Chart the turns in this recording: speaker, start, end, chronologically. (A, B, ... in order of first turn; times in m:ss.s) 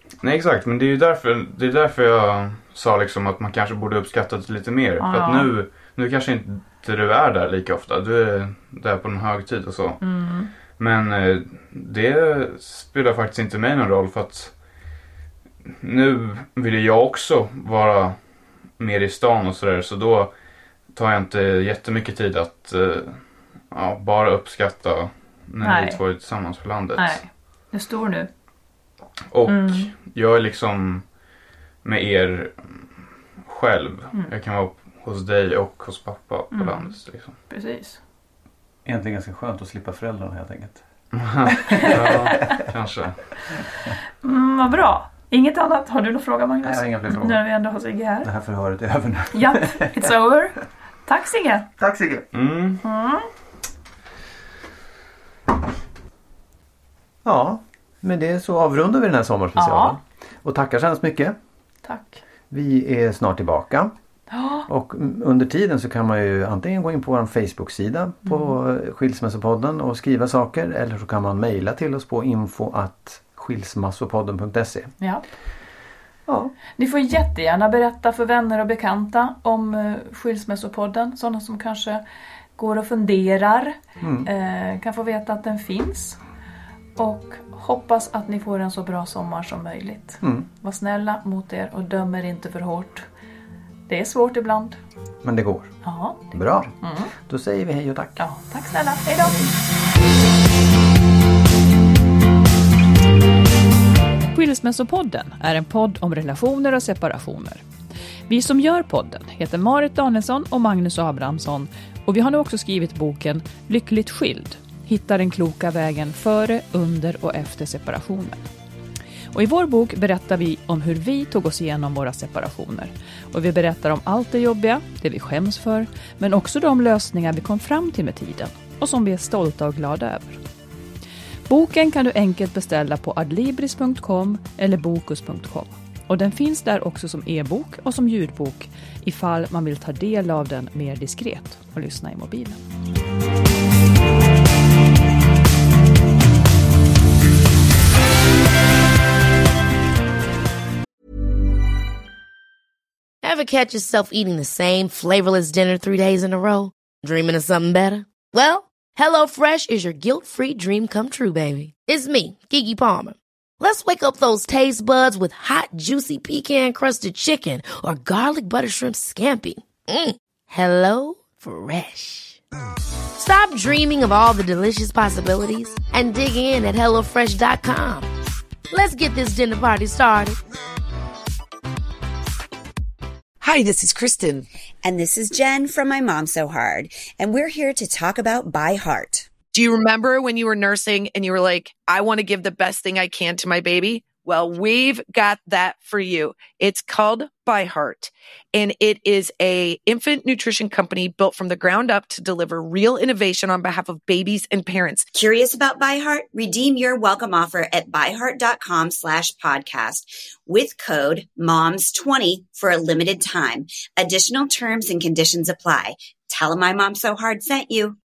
0:00.2-0:10.1 A
0:05.0-0:05.5 B
0:10.0-0:10.5 B
0:10.7-0:14.6 A
0:15.8-0:20.3 A
0:20.9-0:27.2 A
0:25.6-0:26.0 B
0:27.0-0:28.3 B
0:29.3-0:31.0 A
0:29.5-0:29.9 B
0:31.8-0:32.9 A
0:33.4-0:37.4 A
0:36.5-0:36.9 B
0:37.5-0:38.0 B
0:38.8-0:40.8 C
0:41.1-0:43.2 A
0:41.6-0:42.4 B
0:41.7-0:42.6 C
0:44.2-0:48.3 B
0:46.6-0:47.4 C
0:48.2-0:50.1 C
0:49.3-0:51.7 B
0:51.8-0:52.2 C
0:52.3-0:52.8 A
0:52.8-0:53.3 B
0:57.2-1:01.3 C
0:59.6-1:00.0 B
1:01.8-1:02.2 B
1:02.5-1:03.9 C
1:04.3-1:04.7 B
1:04.7-1:14.9 C
1:16.3-1:16.5 C
1:16.8-1:22.0 B
1:22.6-1:26.2 B
1:24.0-1:24.3 C
1:27.0-1:33.0 B
1:30.2-1:30.5 C
1:33.9-1:34.8 B
1:35.2-1:35.8 C
1:35.8-1:36.3 B
1:36.3-1:38.2 C
1:36.8-1:37.1 B
1:38.2-1:39.5 B
1:44.3-1:47.6 B
1:48.3-1:58.4 B
1:59.3-2:10.4 B
2:11.5-2:22.6 B
2:33.2-2:52.4 D
2:53.1-2:58.1 D
2:58.7-3:00.4 D
3:04.8-3:09.3 E
3:09.5-3:25.0 F
3:25.1-3:38.0 E